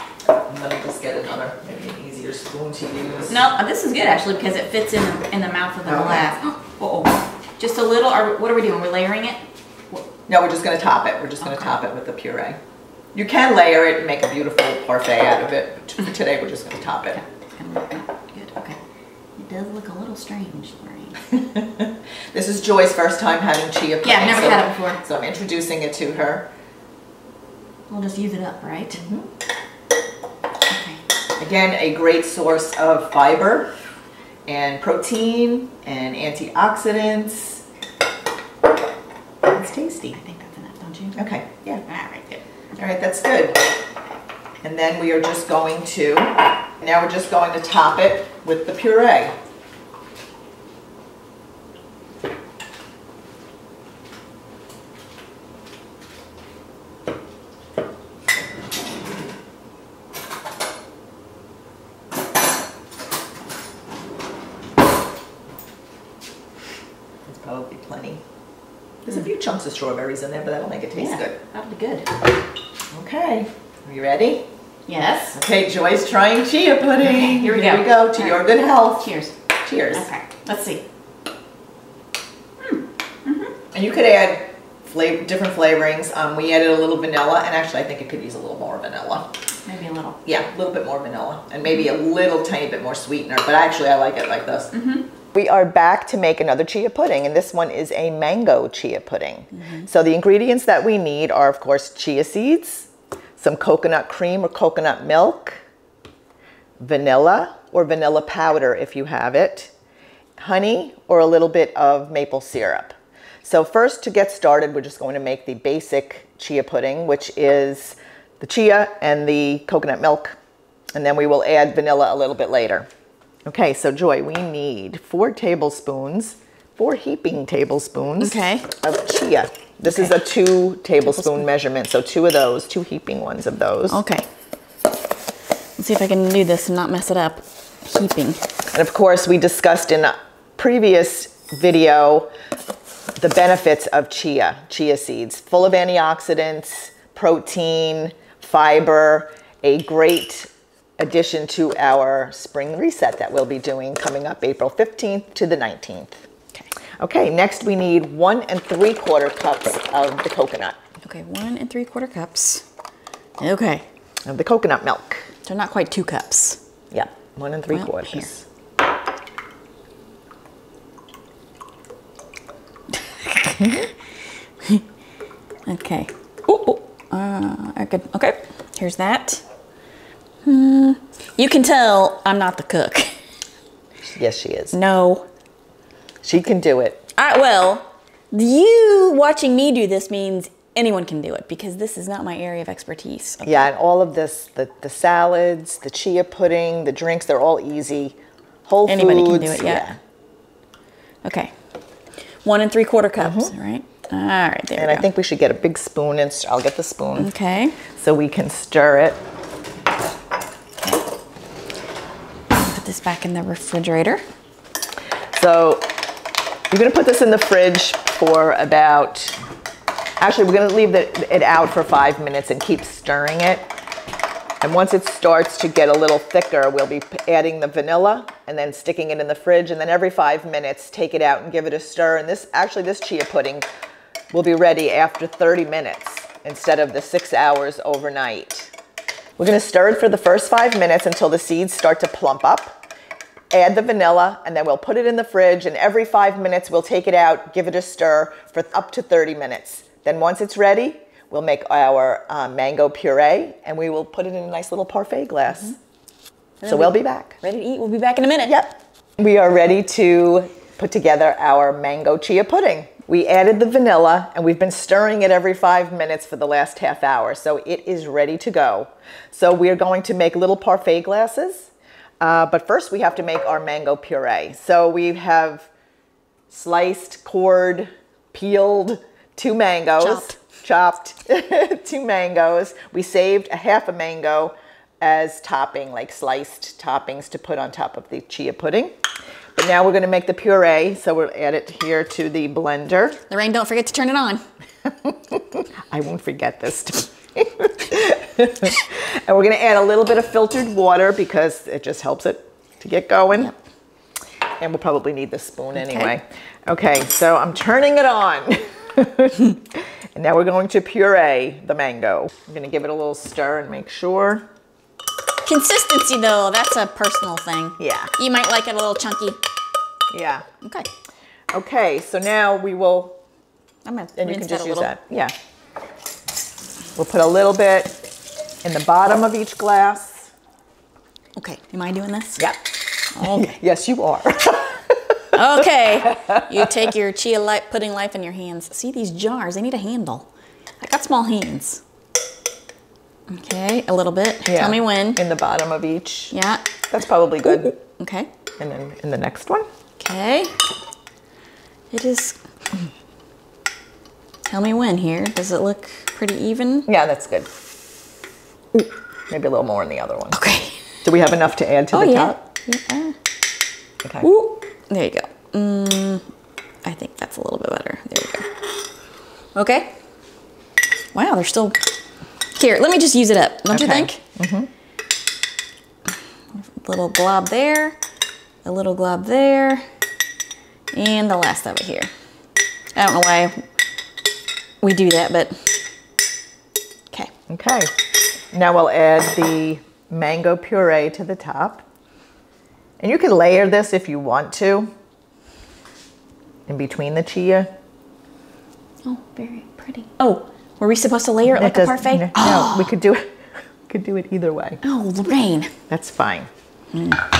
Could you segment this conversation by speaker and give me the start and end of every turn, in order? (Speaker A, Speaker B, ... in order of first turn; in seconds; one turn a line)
Speaker A: 0.5-3.4
Speaker B: 3.3-10.0
Speaker A: 5.8-6.3
Speaker A: 10.3-12.6
Speaker A: 13.1-17.2
Speaker B: 17.1-18.8
Speaker B: 19.4-21.2
Speaker A: 21.3-26.5
Speaker B: 24.0-25.0
Speaker B: 27.9-29.0
Speaker A: 29.0-29.3
Speaker B: 30.7-31.0
Speaker A: 31.4-33.7
Speaker A: 34.5-37.6
Speaker A: 39.4-40.2
Speaker B: 40.1-41.2
Speaker A: 41.1-41.8
Speaker B: 41.9-42.4
Speaker A: 42.8-43.6
Speaker A: 44.6-49.3
Speaker A: 67.2-68.2
Speaker A: 69.0-71.4
Speaker B: 71.0-72.2
Speaker A: 72.9-74.4
Speaker B: 74.9-75.4
Speaker A: 75.3-80.1
Speaker B: 77.0-78.4
Speaker B: 78.9-79.3
Speaker B: 79.9-80.8
Speaker B: 82.6-83.5
Speaker A: 83.7-89.3
Speaker B: 89.6-90.2
Speaker A: 90.2-94.7
Speaker B: 94.7-95.1
Speaker A: 95.3-105.6
Speaker A: 106.8-109.7
Speaker A: 110.4-120.4
Speaker A: 120.9-122.9
Speaker A: 123.5-134.0
Speaker B: 128.2-128.7
Speaker B: 129.9-130.1
Speaker B: 133.9-134.3
Speaker B: 135.8-138.4
Speaker A: 138.7-142.3
Speaker A: 143.2-156.2
Speaker A: 157.0-160.8
Speaker B: 161.0-162.6
Speaker B: 163.4-163.8
Speaker A: 164.2-165.3
Speaker B: 165.4-166.6
Speaker A: 166.9-168.4
Speaker B: 167.7-168.3
Speaker B: 172.9-173.9
Speaker A: 173.6-173.9
Speaker B: 175.7-179.4
Speaker B: 180.4-183.2
Speaker A: 184.1-184.8
Speaker B: 184.7-185.2
Speaker A: 186.2-187.0
Speaker B: 187.1-193.7
Speaker A: 193.4-200.0
Speaker B: 198.8-199.9
Speaker B: 201.2-201.5
Speaker B: 202.4-205.1
Speaker A: 203.2-203.5
Speaker A: 204.8-207.3
Speaker B: 207.2-207.8
Speaker A: 207.9-209.2
Speaker B: 212.5-214.2
Speaker A: 215.3-215.9
Speaker A: 216.7-219.4
Speaker A: 220.2-223.7
Speaker A: 224.6-233.7
Speaker A: 234.3-238.7
Speaker A: 239.4-242.8
Speaker A: 243.5-255.8
Speaker B: 256.6-258.6
Speaker A: 256.6-257.4
Speaker A: 258.4-275.7
Speaker A: 276.5-288.9
Speaker B: 280.0-280.4
Speaker A: 289.6-293.2
Speaker B: 293.3-294.4
Speaker A: 295.0-303.5
Speaker A: 304.6-314.4
Speaker B: 305.7-306.1
Speaker B: 315.4-319.4
Speaker A: 317.8-318.1
Speaker A: 320.1-320.4
Speaker B: 320.6-320.9
Speaker A: 321.5-323.2
Speaker B: 323.8-324.9
Speaker A: 324.2-325.3
Speaker A: 326.9-328.0
Speaker A: 328.6-330.3
Speaker B: 331.4-332.5
Speaker B: 333.1-333.6
Speaker A: 333.1-335.4
Speaker B: 335.3-340.3
Speaker A: 336.1-336.8
Speaker B: 340.8-341.8
Speaker B: 343.3-345.2
Speaker A: 344.4-346.3
Speaker B: 346.3-346.7
Speaker A: 346.9-347.8
Speaker B: 347.4-348.3
Speaker A: 348.6-349.6
Speaker B: 350.0-350.5
Speaker B: 351.9-352.4
Speaker B: 354.4-356.9
Speaker A: 356.9-357.5
Speaker A: 359.3-360.4
Speaker B: 360.3-360.8
Speaker A: 361.0-362.4
Speaker B: 361.9-363.1
Speaker B: 364.2-366.2
Speaker B: 366.8-368.5
Speaker B: 369.5-369.9
Speaker B: 371.1-371.8
Speaker B: 372.5-374.2
Speaker A: 373.7-374.7
Speaker B: 376.5-378.0
Speaker B: 378.6-379.8
Speaker B: 380.9-382.1
Speaker B: 382.9-383.5
Speaker B: 384.8-385.8
Speaker A: 387.5-387.9
Speaker A: 388.5-391.8
Speaker A: 393.0-394.9
Speaker A: 396.7-397.7
Speaker B: 399.0-402.9
Speaker A: 401.4-403.3
Speaker A: 403.9-404.8
Speaker B: 404.8-405.7
Speaker A: 405.9-406.5
Speaker B: 406.9-407.2